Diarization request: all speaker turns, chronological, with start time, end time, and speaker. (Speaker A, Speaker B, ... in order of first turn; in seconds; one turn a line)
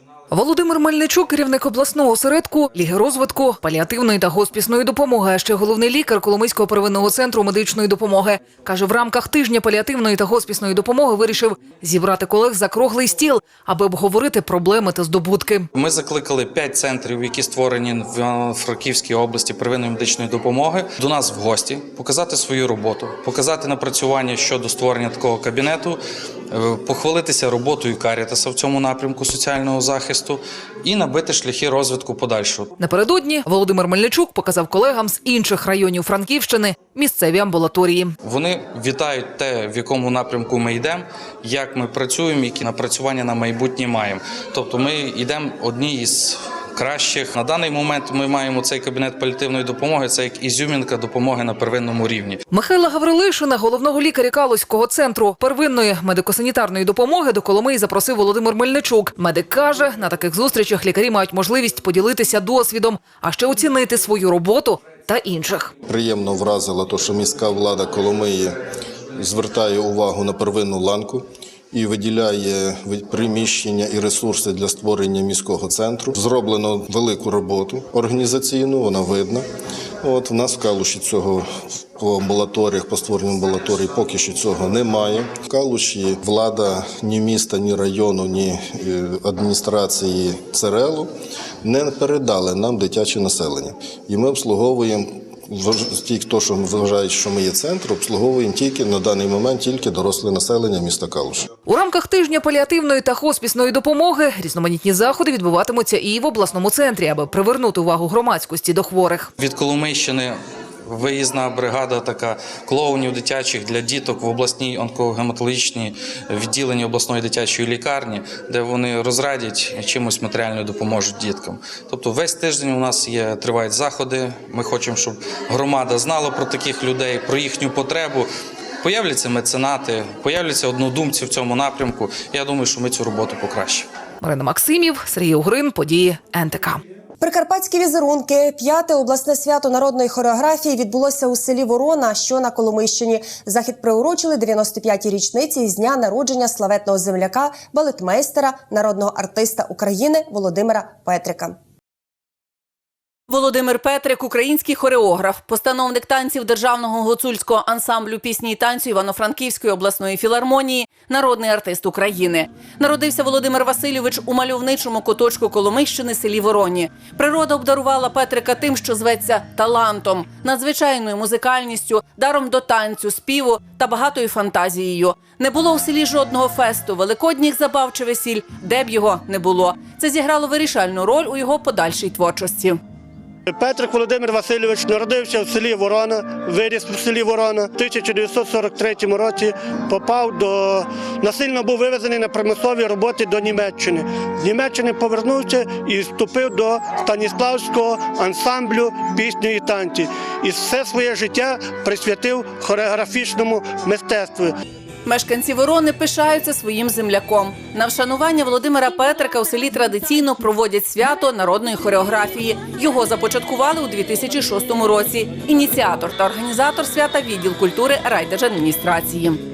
Speaker A: 0.3-15.7
Speaker B: 15.8-26.0
Speaker B: 26.5-32.7
Speaker A: 32.8-38.1
Speaker B: 38.2-52.4
Speaker A: 52.5-65.7
Speaker C: 65.9-68.6
Speaker C: 69.2-79.5
Speaker C: 80.0-81.5
Speaker C: 82.0-91.1
Speaker C: 91.6-101.5
Speaker A: 101.7-109.3
Speaker B: 109.4-110.3
Speaker B: 110.9-128.3
Speaker B: 128.8-133.9
Speaker A: 134.2-136.8
Speaker D: 137.2-151.6
Speaker E: 153.3-182.8
Speaker F: 183.5-204.5
Speaker E: 205.1-219.4